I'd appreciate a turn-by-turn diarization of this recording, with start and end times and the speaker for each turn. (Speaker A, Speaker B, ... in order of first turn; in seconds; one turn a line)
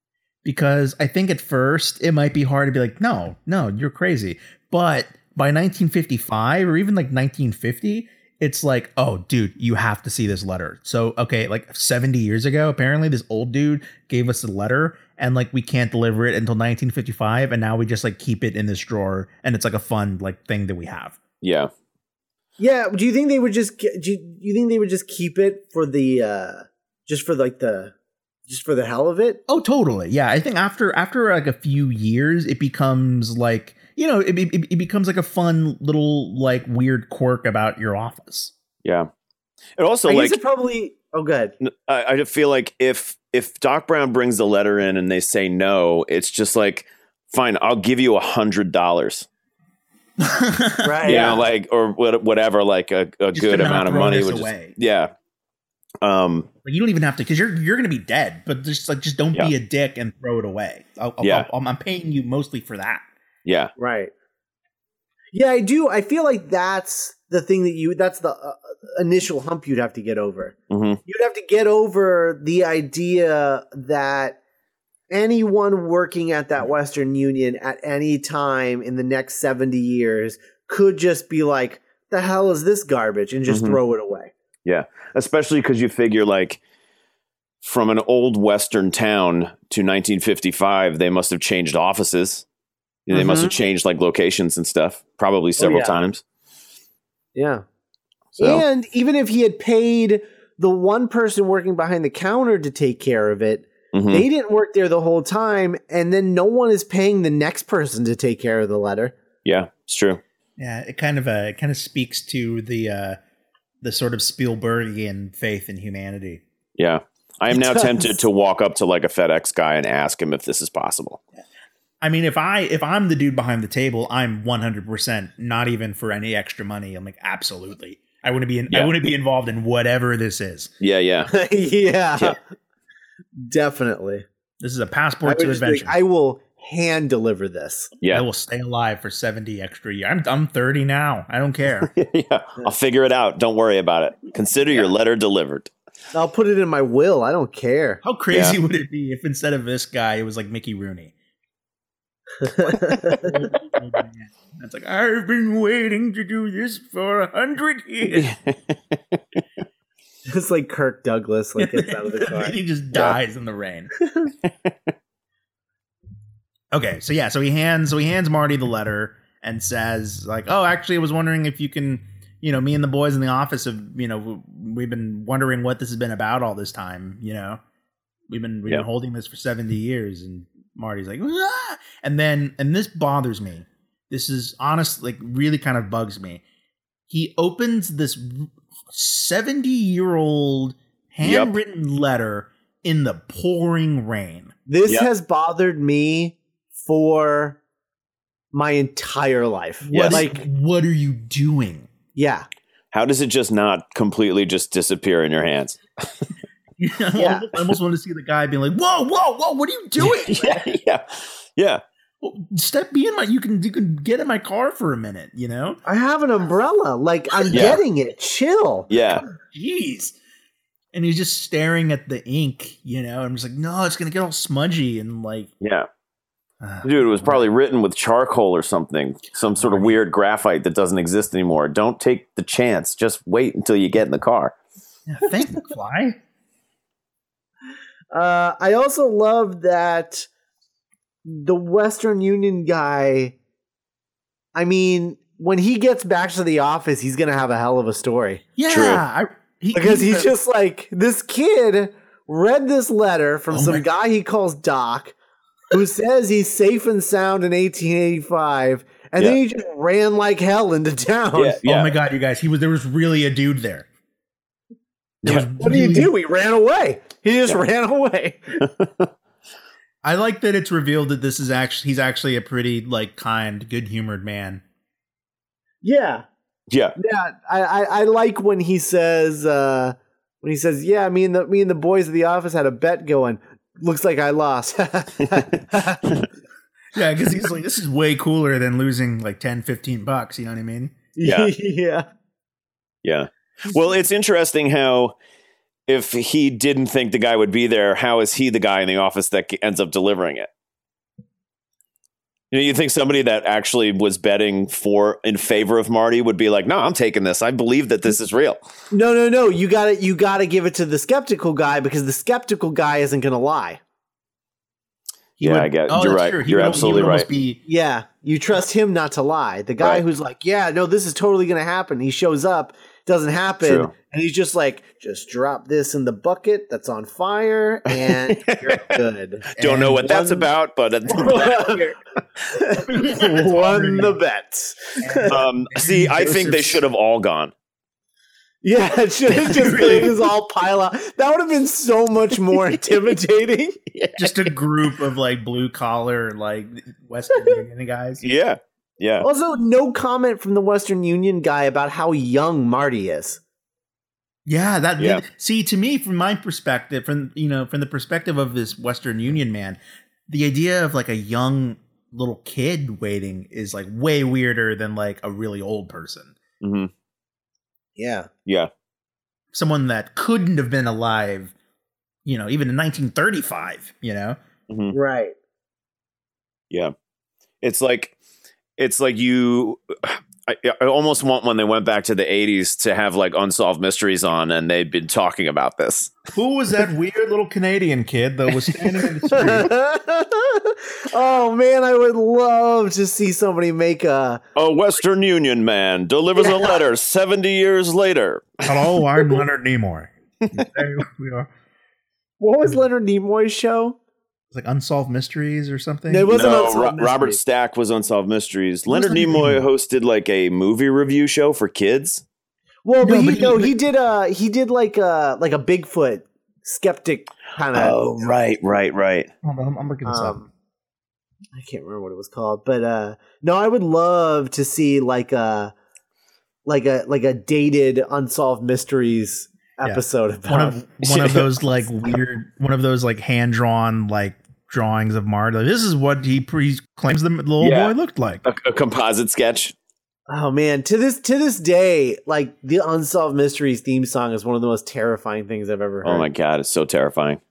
Speaker A: 0.4-21.2
Speaker B: 21.4-21.7
Speaker C: 22.6-27.9
Speaker C: 28.5-29.4
Speaker A: 29.5-38.5
Speaker B: 39.8-40.4
Speaker C: 40.1-41.5
Speaker B: 41.6-49.3
Speaker A: 50.2-51.4
Speaker C: 50.8-51.4
Speaker B: 51.0-55.1
Speaker A: 53.3-54.8
Speaker B: 56.0-56.5
Speaker A: 56.6-63.0
Speaker B: 61.2-61.5
Speaker B: 63.5-63.7
Speaker C: 63.8-64.1
Speaker C: 65.3-74.4
Speaker B: 70.7-71.0
Speaker C: 75.1-84.3
Speaker B: 83.5-83.8
Speaker B: 84.7-86.6
Speaker B: 87.6-92.5
Speaker B: 93.1-96.2
Speaker C: 93.1-93.5
Speaker C: 95.6-96.0
Speaker C: 97.4-97.6
Speaker C: 98.4-109.2
Speaker B: 103.9-104.3
Speaker B: 109.5-110.2
Speaker A: 110.6-113.2
Speaker A: 113.8-116.4
Speaker B: 116.8-121.2
Speaker C: 117.7-118.0
Speaker A: 122.0-130.7
Speaker B: 130.8-131.3
Speaker C: 131.3-132.4
Speaker C: 133.5-134.2
Speaker A: 134.6-136.0
Speaker C: 135.2-137.9
Speaker A: 138.1-141.9
Speaker B: 141.9-145.7
Speaker C: 146.1-148.0
Speaker A: 148.0-151.1
Speaker B: 148.3-148.6
Speaker C: 152.4-153.5
Speaker A: 152.6-158.3
Speaker B: 158.1-158.6
Speaker C: 160.3-162.6
Speaker A: 161.6-163.9
Speaker C: 164.0-164.3
Speaker A: 166.7-177.6
Speaker A: 178.3-186.4
Speaker A: 187.1-194.5
Speaker B: 191.2-191.6
Speaker C: 194.7-197.6
Speaker C: 198.5-200.4
Speaker A: 199.8-201.9
Speaker B: 199.9-200.2
Speaker C: 202.2-202.5
Speaker B: 202.9-205.8
Speaker A: 206.8-210.7
Speaker C: 207.2-207.5
Speaker B: 210.0-211.8
Speaker A: 212.2-215.8
Speaker C: 215.9-218.9
Speaker B: 217.5-217.8
Speaker B: 218.9-219.2
Speaker A: 219.2-220.2
Speaker A: 220.9-225.5
Speaker B: 225.6-225.9
Speaker A: 226.6-227.4
Speaker B: 226.8-234.6
Speaker A: 229.5-229.9
Speaker A: 235.1-236.2
Speaker C: 238.1-240.3
Speaker C: 241.2-243.4
Speaker C: 244.6-248.4
Speaker A: 248.6-250.3
Speaker B: 248.7-249.0
Speaker C: 249.7-255.2
Speaker A: 253.5-253.8
Speaker C: 255.7-261.6
Speaker B: 261.4-261.9
Speaker A: 261.6-263.9
Speaker A: 265.2-266.1
Speaker C: 265.6-268.5
Speaker B: 268.6-269.1
Speaker A: 270.0-274.6
Speaker C: 275.8-276.2
Speaker B: 276.7-277.0
Speaker C: 277.0-286.3
Speaker A: 286.9-291.0
Speaker C: 291.2-292.1
Speaker B: 291.2-291.5
Speaker B: 293.0-295.1
Speaker B: 295.9-300.5
Speaker B: 302.5-308.6
Speaker C: 308.9-313.8
Speaker A: 315.4-317.6
Speaker B: 315.4-317.3
Speaker C: 317.7-329.5
Speaker B: 323.6-323.9
Speaker B: 327.9-329.0
Speaker B: 329.6-331.9
Speaker A: 329.6-330.5
Speaker C: 331.1-331.9
Speaker C: 332.5-335.4
Speaker A: 332.9-334.2
Speaker A: 335.0-336.8
Speaker B: 335.3-337.5
Speaker C: 338.6-343.8
Speaker B: 339.5-340.1
Speaker A: 339.5-340.1
Speaker B: 343.9-344.5
Speaker A: 344.2-348.2
Speaker B: 348.2-349.3
Speaker C: 349.2-353.4
Speaker A: 354.5-366.4
Speaker B: 355.0-355.2
Speaker B: 366.6-366.9
Speaker C: 368.0-368.3
Speaker A: 369.5-371.5
Speaker A: 372.2-374.4
Speaker B: 374.7-374.9
Speaker C: 374.9-375.4
Speaker B: 377.6-378.2
Speaker B: 378.8-386.2
Speaker A: 386.3-389.7
Speaker B: 388.7-389.1
Speaker C: 389.3-394.4
Speaker B: 394.6-398.9
Speaker C: 396.4-396.8
Speaker A: 398.6-401.5
Speaker C: 402.4-404.0
Speaker A: 404.5-406.3
Speaker C: 406.1-407.4
Speaker B: 406.3-412.2
Speaker A: 408.9-409.6
Speaker C: 412.9-418.4
Speaker A: 413.0-413.7
Speaker B: 417.7-419.3
Speaker A: 419.4-420.4
Speaker C: 420.1-420.5
Speaker C: 421.6-425.7
Speaker C: 426.7-430.8
Speaker A: 429.8-438.4
Speaker B: 431.0-431.5
Speaker B: 437.6-439.8
Speaker C: 440.3-446.3
Speaker B: 446.0-447.4